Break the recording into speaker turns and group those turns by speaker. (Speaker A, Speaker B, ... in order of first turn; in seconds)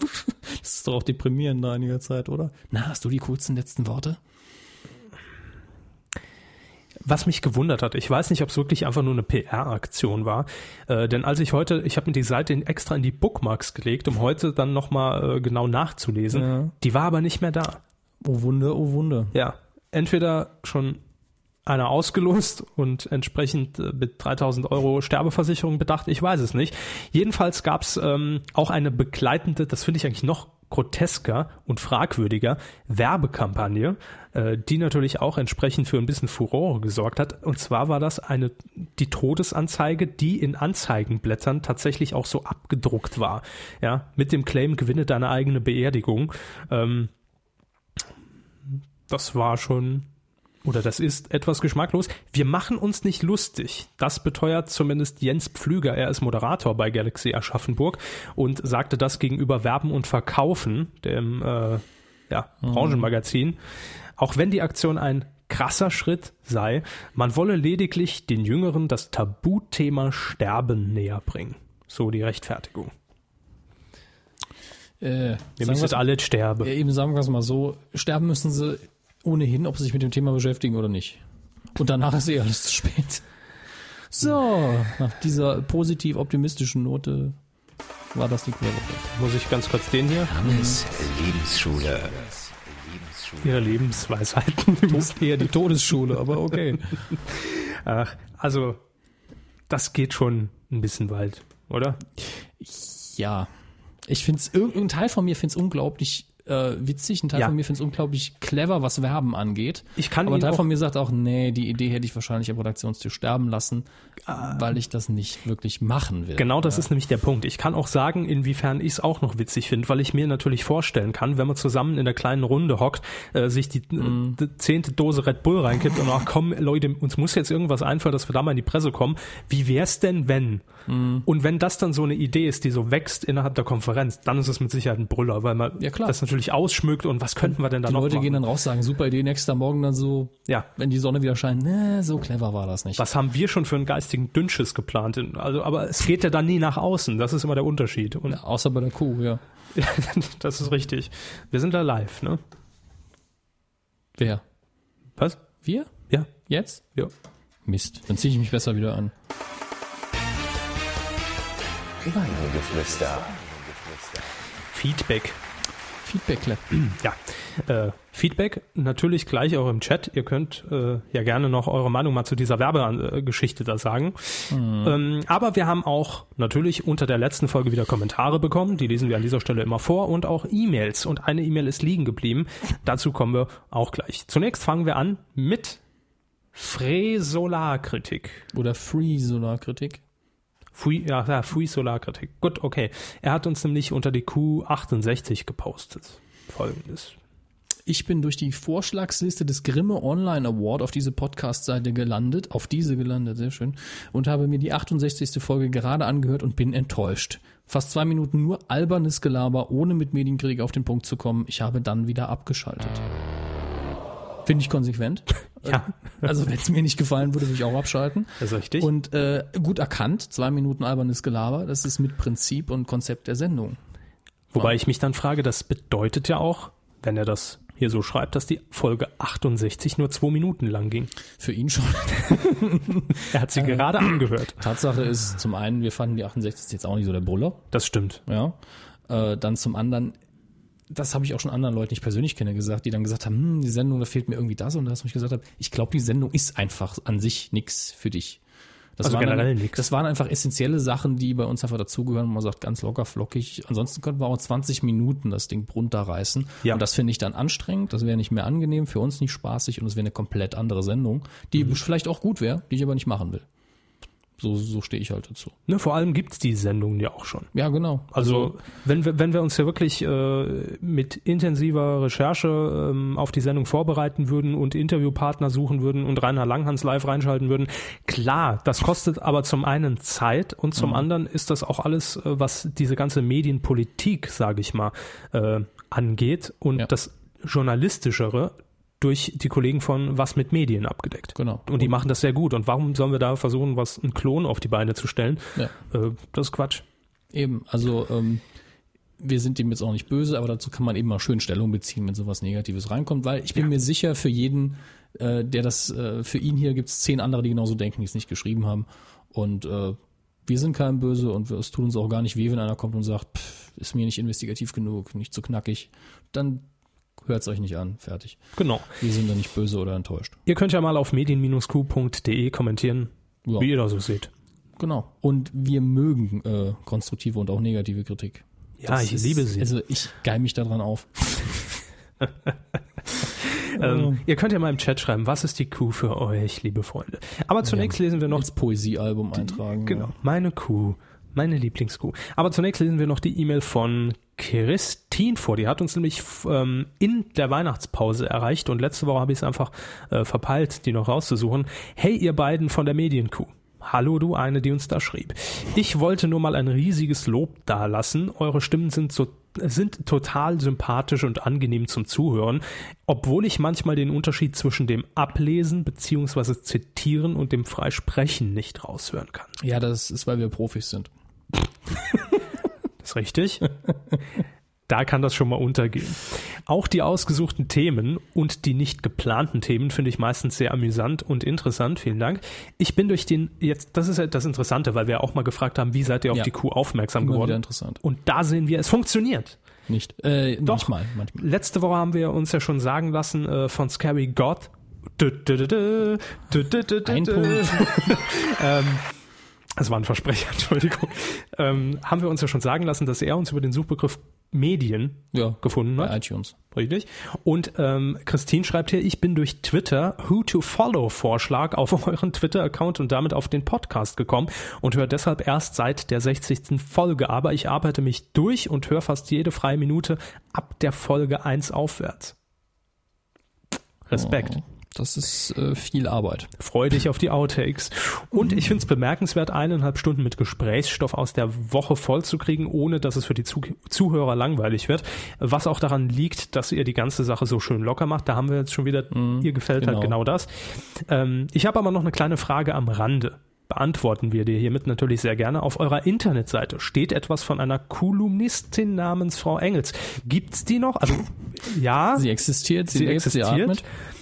Speaker A: 0.3-4.2, 16.3-16.7, 18.2-19.3, 62.6-63.0, 75.0-76.0, 76.6-81.2, 81.8-83.2, 84.1-87.3, 88.1-89.0, 90.4-90.8, 94.9-96.8, 102.6-103.5, 104.1-116.9, 124.0-124.4, 130.9-131.3, 135.8-136.2, 137.4-143.1, 148.3-149.4, 154.2-154.4, 155.6-156.8, 157.7-159.1, 166.0-166.6, 174.5-175.0, 188.5-190.0, 197.8-213.0, 214.4-223.8, 231.4-237.6, 238.3-240.2, 240.9-248.4, 249.0-263.4, 264.4-265.5, 267.5-268.5, 280.8-281.1, 291.3-291.9, 297.3-298.4, 299.2-316.6, 317.2-318.4, 318.9-320.4, 324.8-331.8, 333.8-334.2, 337.6-340.1, 369.6-371.1, 387.2-388.0, 389.9-391.4, 397.0-398.2, 405.3-406.5, 424.1-426.5, 428.4-428.7, 439.1-440.2, 452.1-453.8
Speaker B: 7.0-17.8, 19.3-21.0, 21.6-47.1, 48.7-50.1, 50.6-63.6, 64.2-72.9, 75.6-76.7, 89.1-90.3, 93.4-95.5, 96.5-98.8, 99.7-102.0, 110.0-110.7, 114.3-114.6, 116.3-130.6, 131.2-138.4, 143.0-148.4, 149.7-152.4, 155.2-155.4, 164.7-165.4, 166.7-185.8, 186.5-188.4, 190.8-197.1, 215.6-215.9, 218.4-218.9, 224.5-231.1, 233.2-234.6, 237.7-238.2, 249.0-249.8, 265.7-267.5, 268.1-296.8, 318.6-318.9, 320.4-324.3, 328.8-329.7, 333.4-338.5, 339.4-369.5, 373.0-373.7, 374.9-389.6, 390.6-399.0, 399.8-406.1, 406.7-422.3, 424.1-424.6, 426.6-452.2, 452.9-453.8
Speaker C: 90.3-93.8, 162.0-164.3